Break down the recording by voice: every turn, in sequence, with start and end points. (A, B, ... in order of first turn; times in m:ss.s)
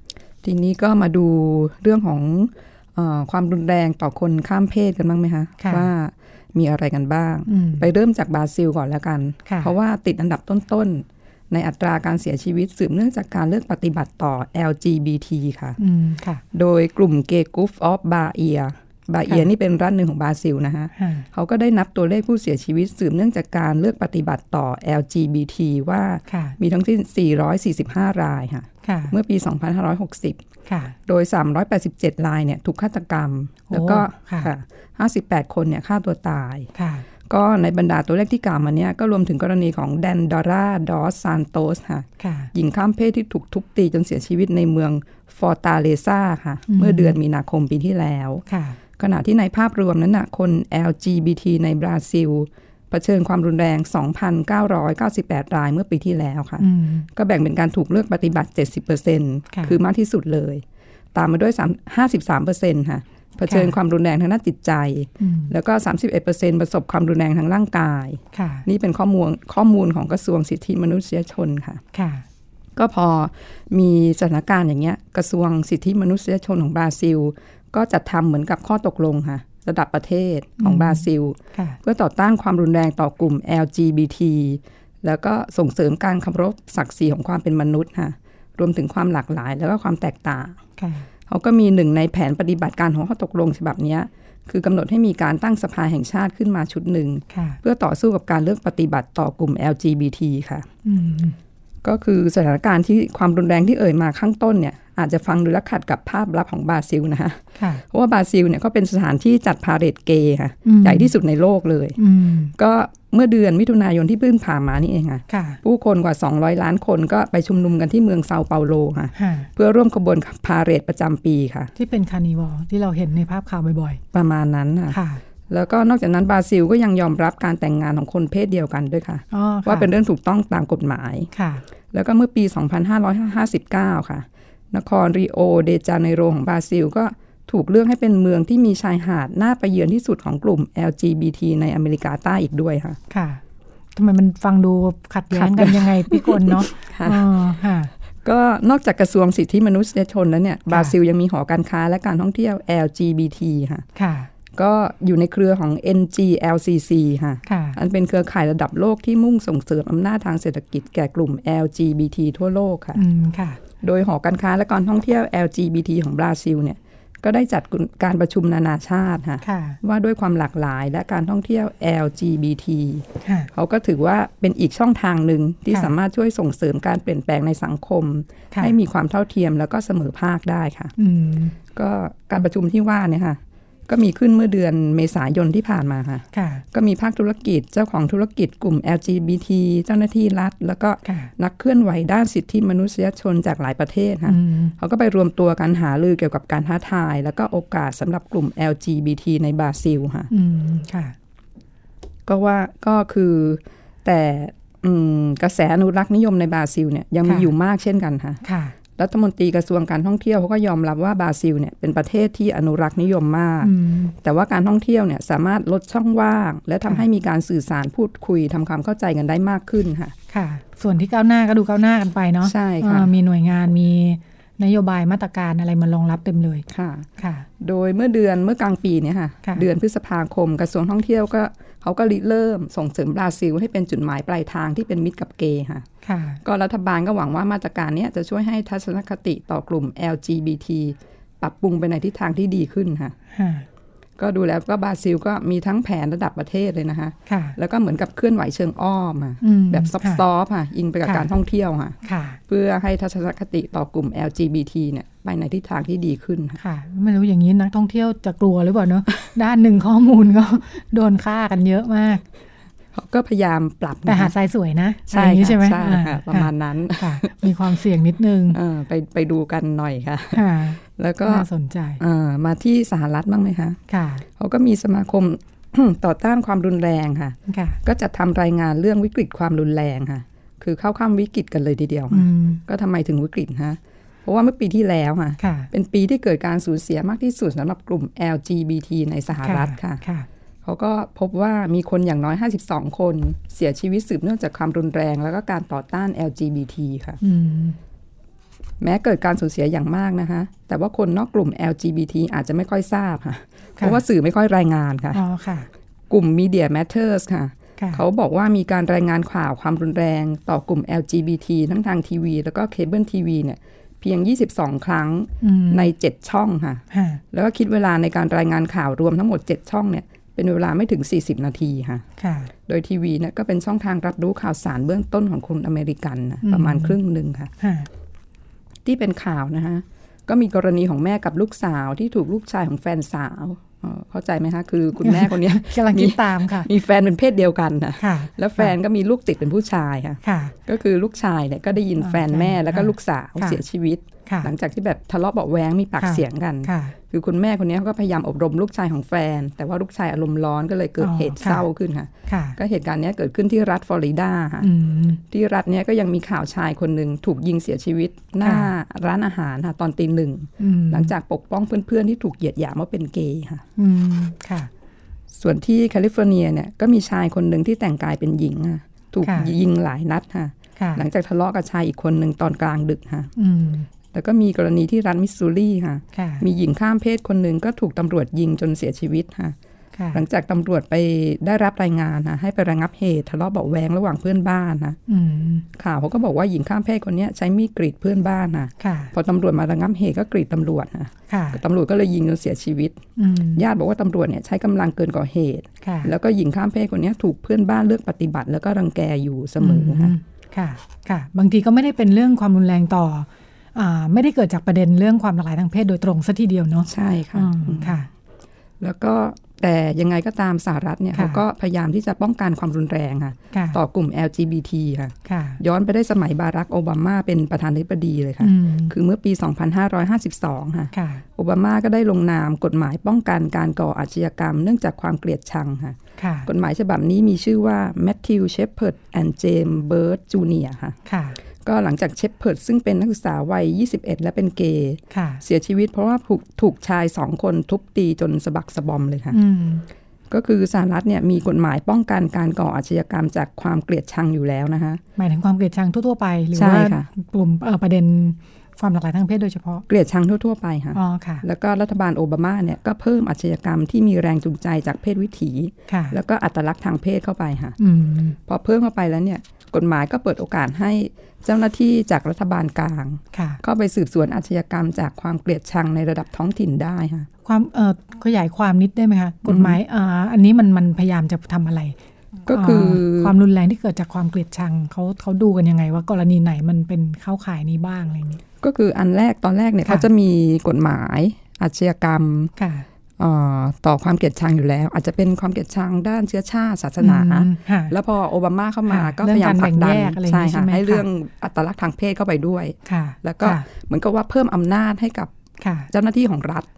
0:00.4-0:15.8 A
0:05.6-0:05.9 B
0:07.5-0:07.9 B
0:09.4-0:09.7 B
0:15.8-0:16.4 B
0:16.5-0:30.4 A
0:21.0-0:21.3 B
0:26.3-0:26.6 B
0:28.8-0:29.1 B
0:30.7-0:31.0 B
0:31.1-0:36.7 A
0:33.7-0:34.5 B
0:36.7-0:37.0 B
0:37.3-0:48.4 A
0:42.2-0:42.5 B
0:46.7-0:47.2 B
0:48.5-0:48.8 B
0:49.0-1:00.6 A
0:56.6-0:57.1 B
0:59.5-0:59.8 B
1:01.1-1:11.8 A
1:03.5-1:03.7 B
1:05.2-1:05.5 B
1:08.3-1:08.7 B
1:11.9-1:12.2 B
1:12.8-1:30.6 A
1:20.6-1:21.8 B
1:30.8-1:31.1 B
1:31.3-1:40.7 A
1:37.3-1:37.6 B
1:40.8-1:41.4 B
1:41.8-1:52.0 A
1:47.6-1:47.8 B
1:50.6-1:51.1 B
1:52.0-1:52.5 B
1:52.6-2:01.7 A
1:55.3-1:55.6 B
1:59.2-1:59.5 B
2:01.8-2:04.0 B
2:04.1-2:11.3 A
2:04.9-2:05.2 B
2:09.3-2:09.9 B
2:11.3-2:11.6 B
2:11.9-2:23.0 A
2:23.1-2:23.4 B
2:23.9-2:27.9 B
2:25.3-2:27.3 A
2:28.2-2:33.8 A
2:33.9-2:34.3 B
2:34.5-2:43.0 A
2:37.4-2:37.8 B
2:42.9-2:43.6 B
2:43.8-3:00.9 A
2:49.4-2:49.8 B
2:53.2-2:53.5 B
2:55.7-2:55.9 B
3:01.0-3:01.6 B
3:01.7-3:20.3 A
3:06.3-3:06.6 B
3:11.0-3:11.3 B
3:14.2-3:14.7 B
3:20.3-3:21.1 B
3:22.3-3:28.4 A
3:27.2-3:27.5 B
3:28.4-3:28.7 B
3:29.0-3:40.1 A
3:33.6-3:34.1 B
3:40.3-3:46.6 B
3:42.4-3:43.1 A
3:46.7-3:47.1 A
3:47.2-3:47.5 B
3:47.6-3:55.8 A
3:56.0-3:56.4 B
3:56.4-4:03.1 A
4:03.3-4:03.6 B
4:04.2-4:16.6 A
4:07.3-4:07.6 B
4:09.4-4:10.2 B
4:11.0-4:11.3 B
4:12.0-4:12.4 B
4:16.6-4:22.2 B
4:22.9-4:24.3 A
4:24.0-4:28.6 B
4:25.1-4:27.5 A
4:28.5-4:31.5 A
4:30.3-4:32.0 B
4:32.0-4:33.8 A
4:33.9-4:34.2 B
4:34.4-4:50.0 A
4:37.5-4:37.8 B
4:42.1-4:42.6 B
4:45.4-4:45.7 B
4:49.4-4:50.2 B
4:50.6-4:57.2 A
4:57.2-4:57.8 B
4:58.8-5:05.2 A
5:05.1-5:05.7 B
5:06.1-5:22.0 A
5:07.8-5:08.0 B
5:15.4-5:15.9 B
5:16.9-5:17.2 B
5:22.2-5:22.5 B
5:22.7-5:27.5 A
5:26.4-5:27.0 B
5:27.6-5:27.9 B
5:28.8-5:54.7 A
5:35.0-5:36.7 B
5:38.0-5:38.7 B
5:40.2-5:40.5 B
5:42.0-5:43.6 B
5:44.2-5:44.5 B
5:46.0-5:46.9 B
5:51.0-5:51.6 B
5:52.3-5:52.6 B
5:54.6-5:55.2 B
5:55.3-6:03.6 A
5:58.4-5:58.7 B
6:00.6-6:01.1 B
6:03.8-6:04.7 B
6:05.3-6:13.3 A
6:09.2-6:09.5 B
6:10.8-6:11.0 B
6:13.4-6:13.9 B
6:14.1-6:19.6 A
6:16.1-6:16.4 B
6:20.0-6:20.2 B
6:20.1-6:25.0 A
6:25.1-6:25.6 B
6:25.7-6:40.1 A
6:28.8-6:29.1 B
6:31.3-6:31.6 B
6:33.2-6:33.6 B
6:35.8-6:36.1 B
6:39.6-6:48.1 B
6:46.8-6:48.1 A
6:48.8-7:11.0 A
6:51.1-6:51.4 B
6:53.5-6:53.8 B
6:55.3-6:55.6 B
6:58.4-6:58.9 B
7:00.9-7:01.2 B
7:06.2-7:06.5 B
7:11.0-7:11.4 B
7:11.6-7:19.4 A
7:15.1-7:15.4 B
7:19.3-7:19.8 B
7:20.3-7:25.0 A
7:25.2-7:29.8 B
7:26.5-7:27.1 A
7:29.9-7:37.8 A
7:30.9-7:31.4 B
7:35.9-7:36.2 B
7:37.8-7:38.4 B
7:38.4-7:47.3 A
7:43.3-7:43.6 B
7:47.4-7:52.0 B
7:49.4-7:49.8 A
7:52.5-7:53.3 A
7:52.5-7:58.4 B
7:58.6-8:02.5 A
8:02.6-8:02.8 B
8:03.2-8:15.3 A
8:07.0-8:07.9 B
8:08.9-8:11.0 B
8:12.8-8:13.7 B
8:15.6-8:15.9 B
8:15.9-8:16.7 A